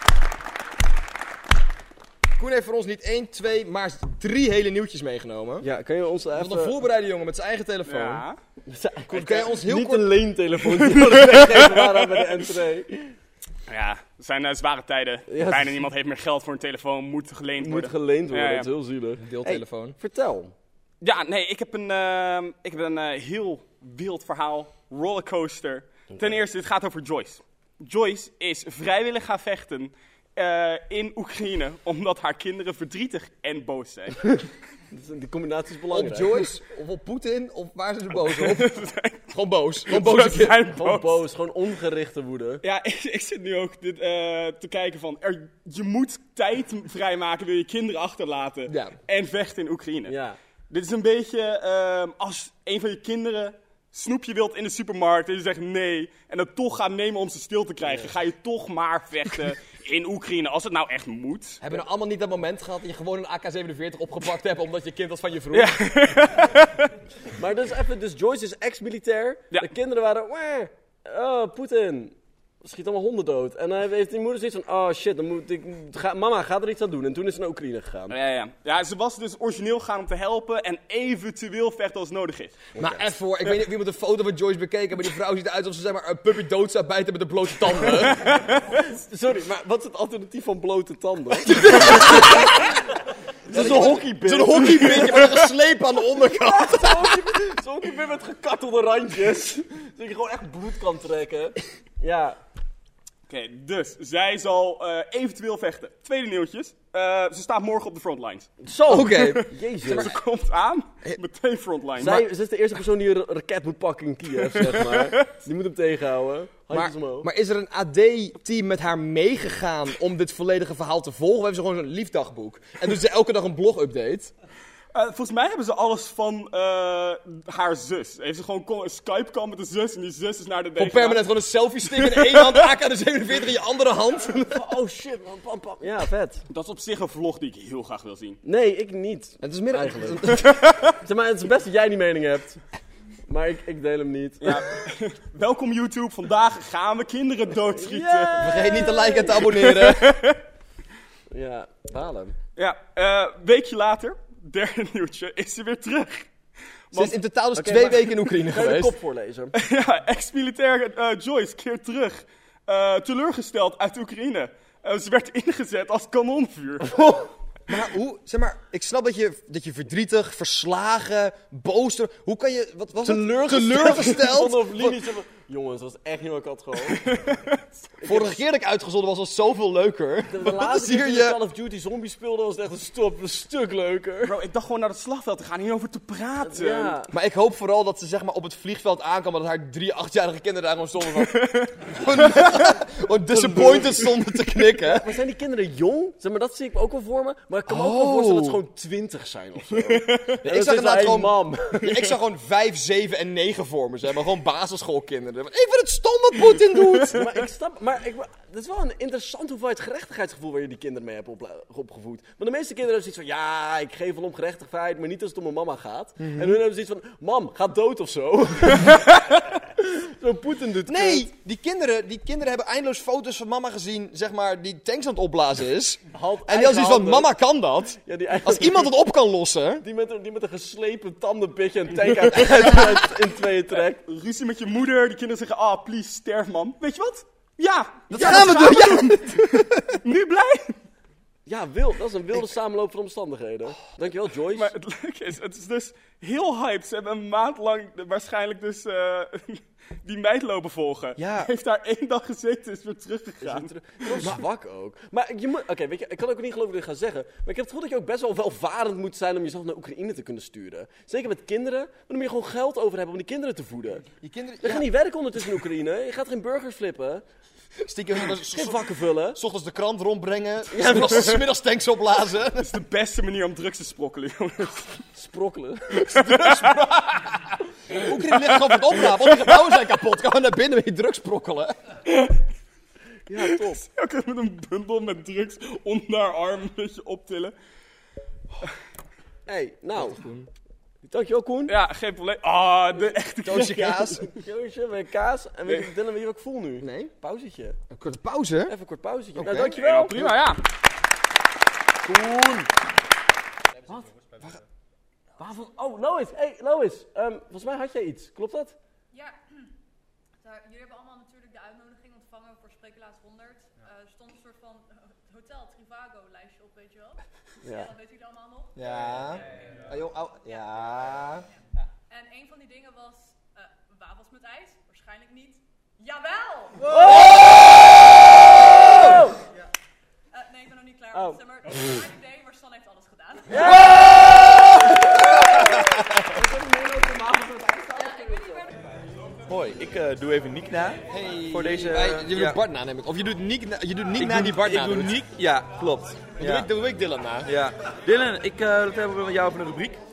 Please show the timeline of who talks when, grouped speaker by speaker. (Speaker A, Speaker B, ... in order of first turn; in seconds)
Speaker A: 2.4-5.7, 6.3-8.2, 9.1-10.2, 19.2-20.0, 35.9-40.6, 48.7-49.0, 61.6-65.8, 82.8-88.2, 91.5-92.5, 93.5-97.2, 108.9-110.1, 116.7-124.3, 130.8-134.6, 139.4-140.4, 148.4-150.3, 156.9-158.9, 167.7-175.0, 178.0-181.4, 187.1-195.1, 197.7-198.6, 200.4-207.2, 216.2-216.6, 220.9-229.8, 238.1-240.0, 251.2-251.5, 264.2-264.9, 267.8-272.7, 276.2-277.2, 277.9-281.7, 290.0-290.5, 293.4-294.3, 296.8-297.1, 297.9-298.7, 299.3-299.8, 318.8-321.4, 334.4-334.9, 341.1-345.2, 346.4-347.5
Speaker B: 5.6-6.8, 8.7-13.1, 15.3-15.8, 17.6-20.5, 34.9-36.5, 40.7-42.6, 50.1-50.4, 57.8-58.1, 67.4-78.2, 82.8-83.1, 88.8-92.7, 93.5-95.4, 96.3-102.4, 108.6-110.1, 112.0-117.3, 134.3-136.4, 138.4-142.6, 143.3-144.6, 147.7-149.4, 151.3-152.4, 157.5-159.5, 173.0-177.2, 177.9-178.4, 180.3-184.4, 186.4-187.1, 193.3-202.1, 207.1-221.3, 226.1-227.3, 228.0-228.9, 229.8-234.0, 241.4-244.7, 253.4-264.1, 264.6-267.2, 268.2-269.4, 270.7-271.4, 275.1-276.5, 283.3-283.8, 289.4-290.2, 291.0-291.7, 294.2-297.8, 298.7-300.4, 302.0-302.7, 305.4-308.8, 317.6-317.9, 326.9-327.4, 328.7-329.4, 331.1-331.9, 333.5-338.7
Speaker C: 7.9-8.4, 10.9-12.2, 13.7-18.7, 21.0-34.4, 38.2-39.2, 39.9-41.2, 42.6-50.2, 50.7-61.6, 65.5-66.9, 78.1-82.6, 88.1-88.6, 103.3-108.5, 109.2-112.3, 114.5-115.2, 124.9-131.3, 131.9-132.6, 136.5-138.4, 140.5-140.8, 144.4-148.7, 149.3-150.4, 152.6-156.3, 156.9-157.2, 159.5-166.9, 176.9-177.6, 184.2-186.9, 191.3-191.7, 199.8-200.3, 234.0-240.8, 244.5-254.4, 272.6-275.0, 276.0-276.8, 283.3-287.5, 291.7-294.3, 299.5-300.6
Speaker D: 309.1-309.5, 310.4-319.2, 322.1-327.3, 330.3-333.8, 337.9-339.0
Speaker E: 339.5-342.6, 344.2-346.7, 347.4-350.0